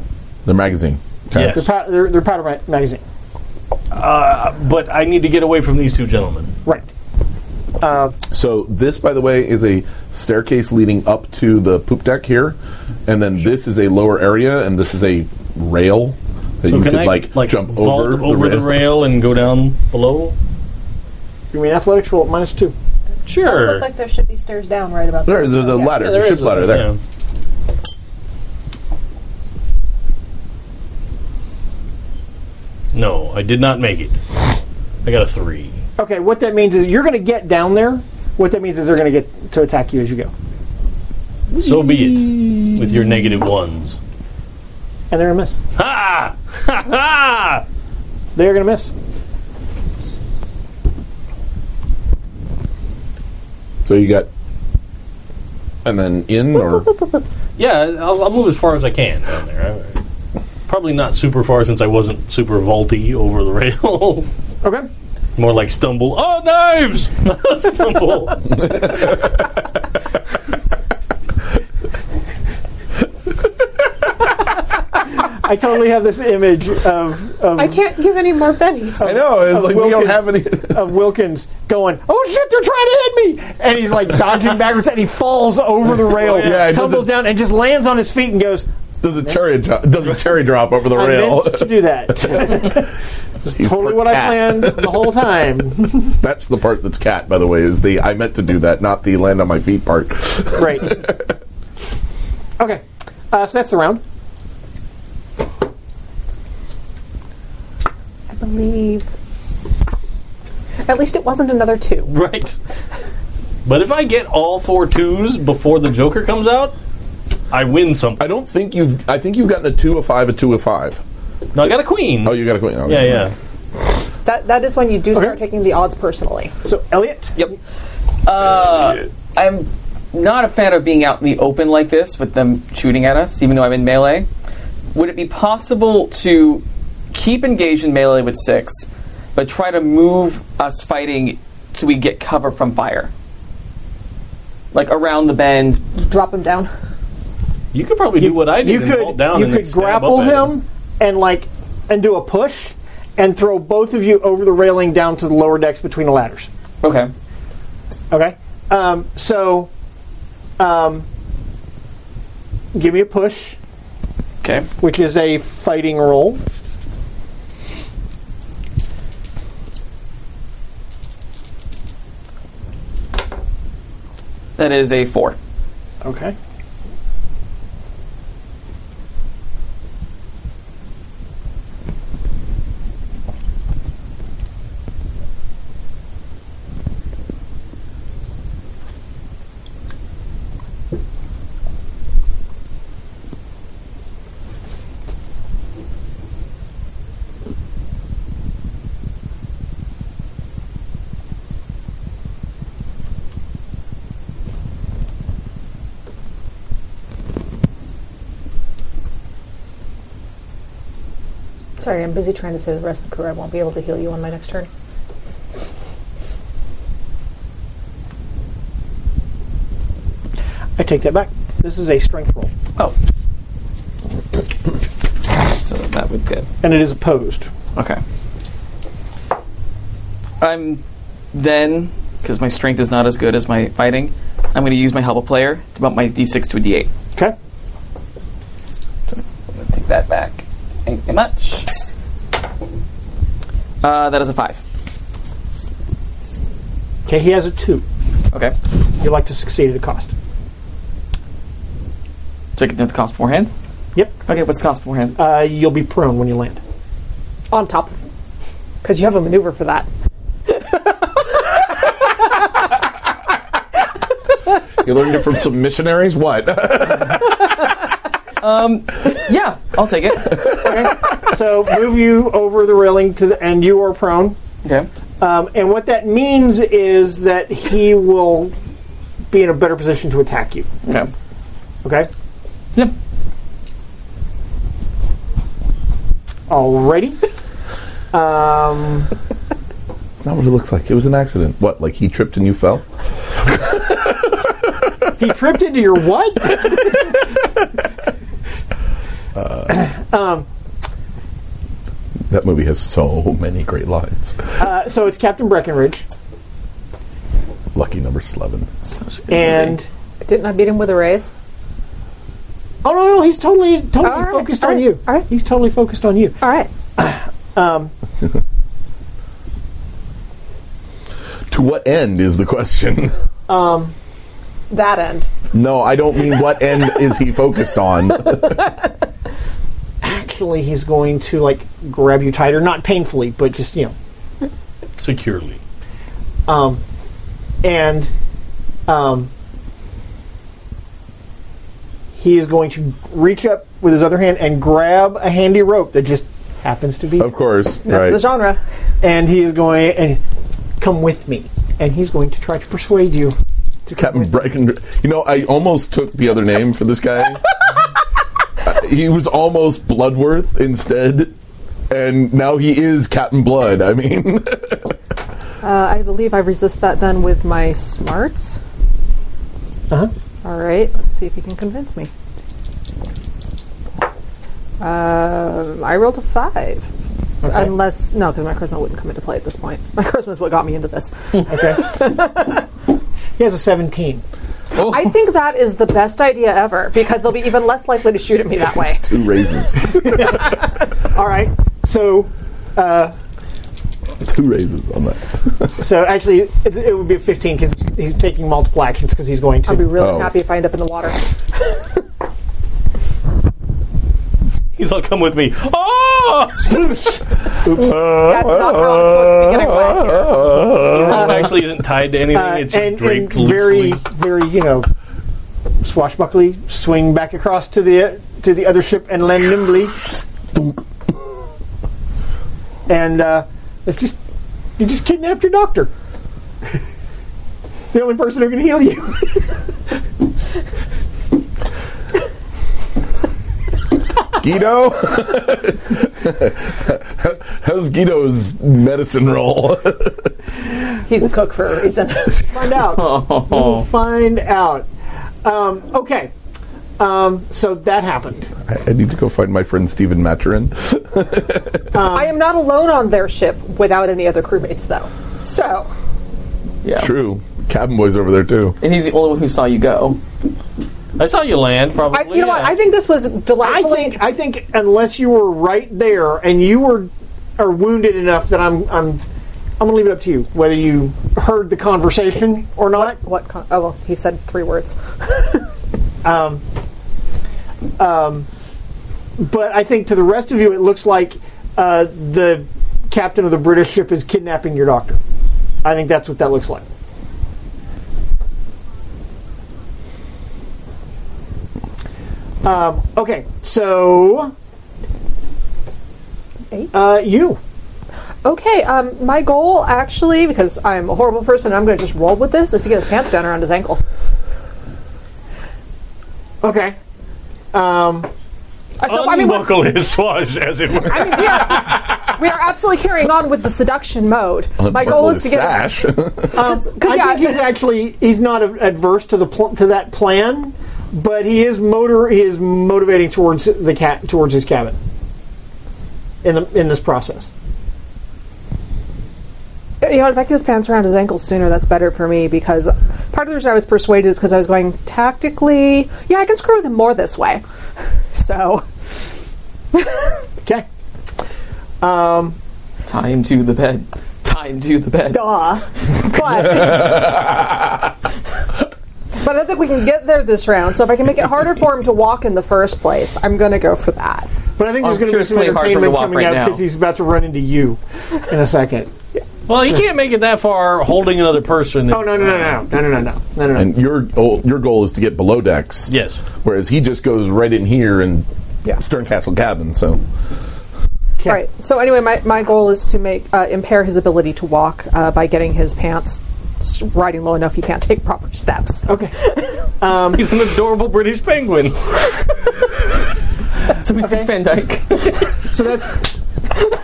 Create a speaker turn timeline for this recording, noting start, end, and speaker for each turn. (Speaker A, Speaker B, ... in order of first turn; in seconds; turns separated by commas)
Speaker A: 0.5-1.6, Speaker B: 1.3-1.7, Speaker C: 1.4-3.0, Speaker B: 3.9-6.5, Speaker C: 6.7-6.9, Speaker C: 7.8-8.2, Speaker A: 8.3-18.9, Speaker B: 16.7-20.4, Speaker C: 21.5-22.8, Speaker B: 23.3-23.9, Speaker D: 23.3-26.0, Speaker A: 25.3-26.9, Speaker B: 25.9-27.0, Speaker B: 32.9-34.2, Speaker B: 35.0-35.8, Speaker C: 36.0-40.3, Speaker B: 41.5-44.0, Speaker C: 45.1-45.6, Speaker B: 45.8-47.6, Speaker C: 48.4-48.9, Speaker A: 53.9-54.3, Speaker A: 55.9-56.9, Speaker D: 56.5-57.2, Speaker B: 57.6-60.0, Speaker B: 60.7-64.3, Speaker C: 64.6-64.9, Speaker B: 65.4-69.2, Speaker A: 68.8-69.1, Speaker C: 75.2-77.8, Speaker D: 77.5-79.2, Speaker C: 79.0-88.7, Speaker A: 79.0-80.9, Speaker A: 86.3-87.2, Speaker A: 89.0-92.9, Speaker C: 90.9-92.9, Speaker C: 93.5-96.1, Speaker A: 93.5-95.1, Speaker A: 96.1-101.3, Speaker C: 100.5-101.0, Speaker C: 102.6-104.0, Speaker D: 108.3-109.1, Speaker D: 110.8-112.1, Speaker B: 112.1-112.6, Speaker B: 113.7-116.8, Speaker B: 117.5-118.3, Speaker A: 118.2-121.0, Speaker B: 121.5-123.3, Speaker A: 122.2-123.2, Speaker D: 124.2-126.5, Speaker C: 125.1-125.4, Speaker C: 126.6-127.4, Speaker E: 128.2-134.3, Speaker E: 134.9-143.1, Speaker E: 144.7-145.8, Speaker D: 146.0-146.7, Speaker B: 147.7-150.6, Speaker C: 148.2-156.5, Speaker E: 156.8-157.1, Speaker C: 158.1-159.7, Speaker C: 160.6-161.1, Speaker C: 162.7-163.6, Speaker E: 164.4-164.7, Speaker C: 164.8-166.4, Speaker E: 174.6-175.4, Speaker C: 176.0-176.3, Speaker D: 211.8-214.7, Speaker C: 220.8-222.5, Speaker E: 225.3-226.5, Speaker C: 226.6-227.5, Speaker E: 227.8-228.0, Speaker E: 230.4-236.9, Speaker E: 239.1-241.7, Speaker E: 243.8-244.6, Speaker C: 247.1-247.8, Speaker C: 249.0-250.1, Speaker E: 252.6-253.5, Speaker E: 254.3-255.2, Speaker C: 255.2-256.6, Speaker D: 257.5-258.0, Speaker D: 258.8-259.9, Speaker D: 260.5-261.4, Speaker A: 264.8-267.4, Speaker E: 268.4-270.9, Speaker C: 270.5-274.4, Speaker E: 274.6-274.9, Speaker C: 275.2-278.5, Speaker C: 279.3-280.8, Speaker E: 280.8-281.1, Speaker C: 281.8-282.1, Speaker C: 286.5-287.2, Speaker C: 288.1-289.1, Speaker A: 290.2-292.9, Speaker A: 293.6-293.9, Speaker C: 295.2-297.2, Speaker A: 299.4-299.7, Speaker C: 299.7-300.5, Speaker A: 302.3-304.5, Speaker C: 304.6-306.1, Speaker A: 307.8-308.7, Speaker E: 308.8-309.8, Speaker C: 309.3-309.9, Speaker D: 310.2-311.3, Speaker C: 312.8-316.4, Speaker D: 314.0-315.3, Speaker D: 316.4-316.7, Speaker C: 317.0-317.9, Speaker A: 321.5-323.1, Speaker C: 323.5-323.9, Speaker D: 324.7-325.3, Speaker A: 325.5-328.7, Speaker C: 330.0-333.9, Speaker B: 335.0-335.6, Speaker C: 336.5-336.8, Speaker C: 337.6-338.1, Speaker C: 338.9-339.3, Speaker C: 342.1-347.3, Speaker A: 347.2-348.3, Speaker D: 347.9-348.6, Speaker C: 349.0-350.2, Speaker C: 350.8-354.3, Speaker A: 353.9-357.6, Speaker A: 358.6-361.3, Speaker A: 361.9-364.9, Speaker D: 365.6-368.6, Speaker D: 370.4-372.1, Speaker D: 374.8-376.9, Speaker C: 377.4-377.7, Speaker D: 377.4-382.6, Speaker C: 381.5-381.9, Speaker C: 383.4-384.2, Speaker D: 384.7-389.2, Speaker A: 389.0-390.3, Speaker C: 389.9-393.1, Speaker A: 394.2-395.8, Speaker C: 395.8-399.9, Speaker D: 399.7-401.2, Speaker A: 400.0-400.3, Speaker B: 404.7-407.2, Speaker C: 407.6-408.0, Speaker A: 407.8-411.6, Speaker D: 408.0-410.5, Speaker B: 410.8-414.0, Speaker C: 411.1-411.5, Speaker C: 412.3-414.9, Speaker C: 415.8-420.0, Speaker C: 422.9-424.2, Speaker C: 424.8-425.9, Speaker C: 427.9-429.6, Speaker A: 434.4-440.3, Speaker D: 441.1-442.6, Speaker C: 442.4-444.9, Speaker E: 442.9-443.9, Speaker C: 445.4-446.3, Speaker C: 447.0-448.5, Speaker A: 448.7-451.9, Speaker C: 451.9-452.4, Speaker D: 452.0-455.9, Speaker E: 456.8-457.1, Speaker A: 457.0-458.8, Speaker E: 458.8-460.2, Speaker B: 461.2-462.8, Speaker D: 462.1-464.2, Speaker C: 463.6-469.2, Speaker C: 469.8-473.2, Speaker D: 472.9-475.7, Speaker C: 476.2-476.6, Speaker C: 478.0-478.5, Speaker C: 479.4-485.2, Speaker C: 485.8-486.9, Speaker C: 492.6-494.5, Speaker C: 496.9-497.6, Speaker D: 498.4-504.1, Speaker C: 506.6-507.0, Speaker C: 507.7-508.3, Speaker D: 509.0-509.8, Speaker B: 509.0-512.0, Speaker D: 511.1-515.9, Speaker A: 514.8-516.6, Speaker D: 516.5-517.7, Speaker C: 516.5-525.0, Speaker C: 526.4-527.5, Speaker D: 530.0-537.6, Speaker D: 538.3-539.3, Speaker D: 539.9-540.4, Speaker C: 542.0-542.6, Speaker E: 543.1-545.6, Speaker D: 545.3-547.5, Speaker D: 549.4-554.5, Speaker C: 554.8-559.4, Speaker E: 555.0-556.8, Speaker B: 559.7-562.8, Speaker C: 562.1-564.0, Speaker A: 563.8-570.2, Speaker B: 566.1-566.4, Speaker D: 571.5-579.8, Speaker C: 579.1-579.3, Speaker C: 579.9-580.5, Speaker B: 580.3-582.4, Speaker E: 583.9-585.5, Speaker C: 584.2-584.5, Speaker C: 585.6-586.3